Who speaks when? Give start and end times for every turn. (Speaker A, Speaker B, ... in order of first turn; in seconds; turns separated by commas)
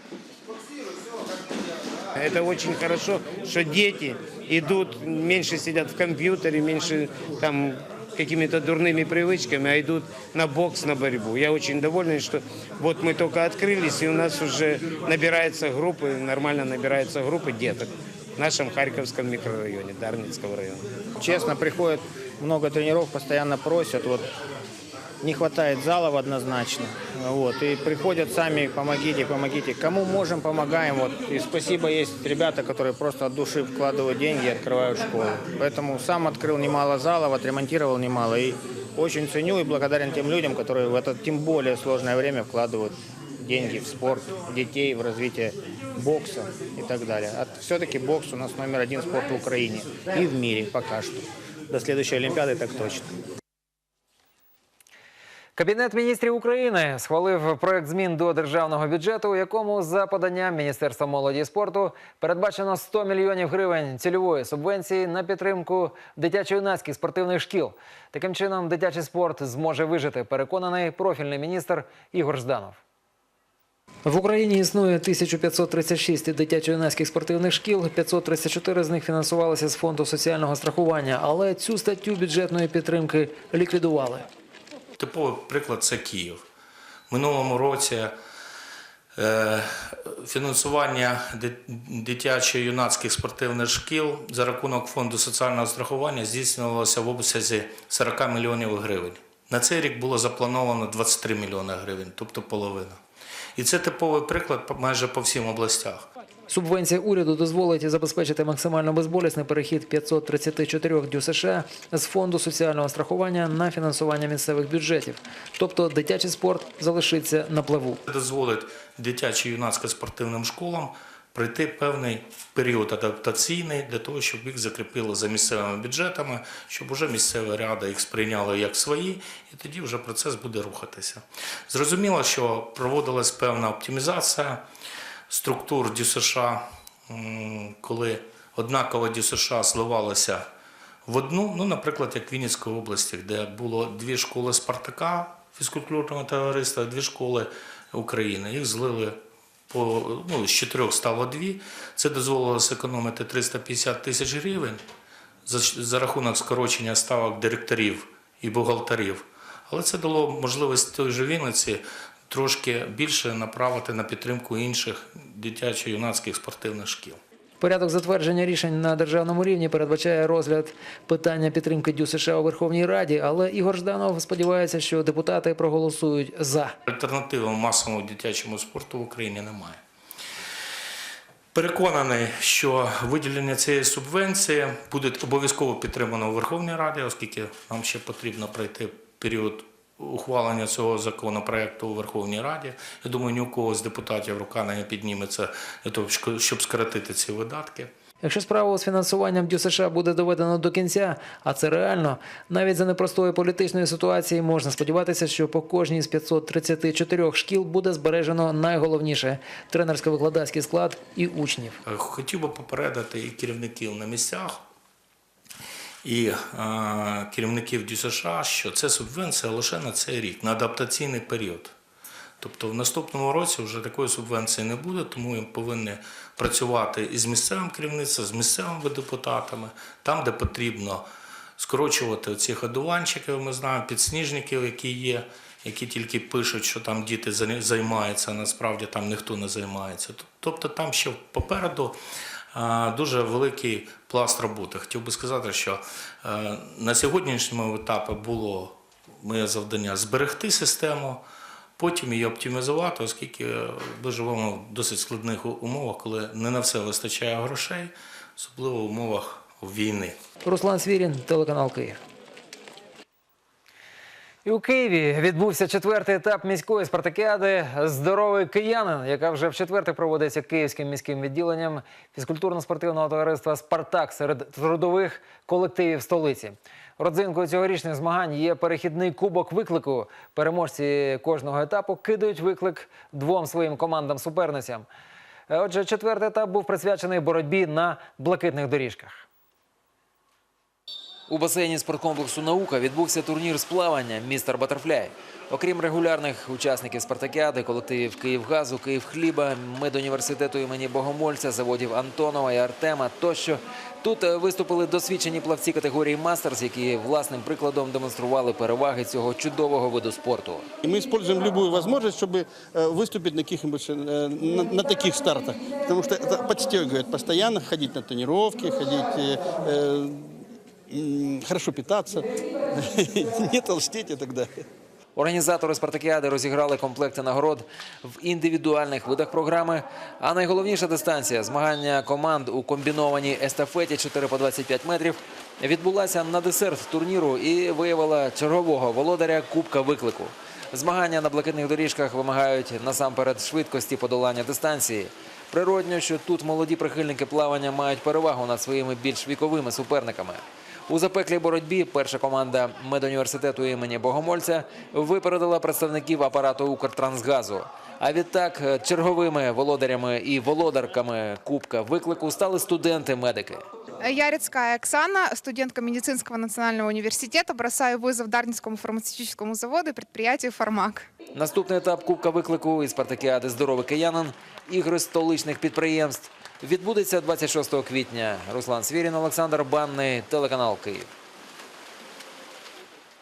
Speaker A: 2.1-20.9, Speaker B: 21.2-24.3, Speaker B: 25.2-53.1, Speaker C: 55.6-72.8, Speaker C: 74.0-84.3, Speaker D: 85.0-86.4, Speaker D: 87.1-88.2, Speaker D: 89.2-103.0, Speaker D: 103.6-106.0, Speaker C: 106.5-118.0, Speaker D: 118.1-134.7, Speaker D: 135.3-140.4, Speaker D: 141.1-149.2, Speaker D: 149.7-154.8, Speaker D: 155.5-167.2, Speaker C: 167.6-176.8, Speaker D: 176.9-179.8, Speaker D: 181.5-197.9, Speaker C: 198.2-211.8, Speaker D: 211.9-214.6, Speaker D: 216.0-221.7, Speaker D: 222.4-231.1, Speaker D: 231.6-242.0, Speaker D: 242.5-251.2, Speaker D: 251.8-260.2, Speaker C: 260.4-262.0, Speaker C: 264.4-284.9, Speaker C: 285.5-289.2, Speaker C: 291.3-310.7, Speaker E: 310.8-324.6, Speaker C: 325.2-363.6, Speaker F: 364.0-371.1, Speaker C: 371.3-381.1